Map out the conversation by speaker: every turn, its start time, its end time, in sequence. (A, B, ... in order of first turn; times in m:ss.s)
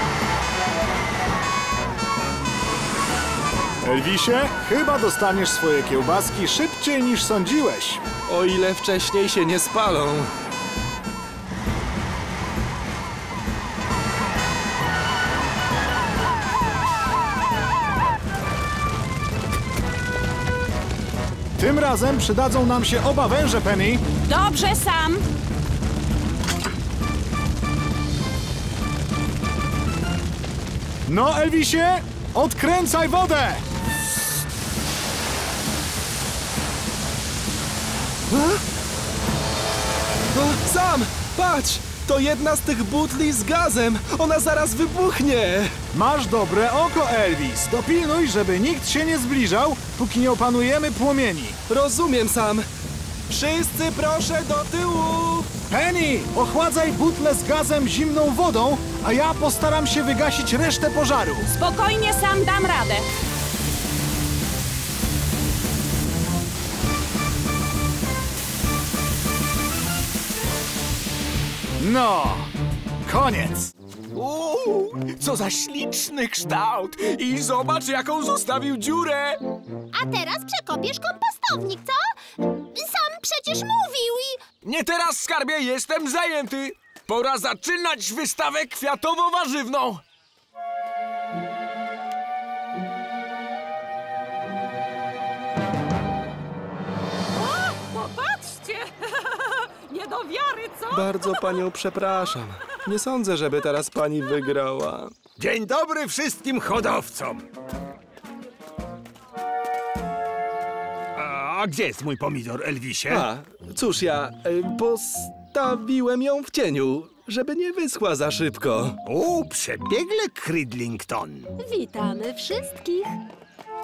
0:03.8-0:08.0 A
0:08.3-0:10.3 B
0:21.6-0:24.0 A
0:24.3-0:25.2 C
0:31.1-0:33.6 A
0:38.3-0:38.6 B
0:40.3-0:45.8 B
0:45.9-0:51.6 A
0:51.7-0:52.7 B
0:53.3-0:55.5 B
0:55.7-1:01.5 A
1:01.5-1:03.1 C
1:11.8-1:12.5 A
1:13.1-1:13.7 A
1:14.2-1:19.4 D
1:19.9-1:22.0 E
1:22.7-1:24.4 E
1:24.6-1:30.0 D
1:37.4-1:41.4 C
1:40.9-1:45.1 B
1:45.4-1:47.4 F
1:51.2-1:53.2 F
1:53.1-1:59.0 B
1:59.1-2:01.5 F
2:01.6-2:03.2 E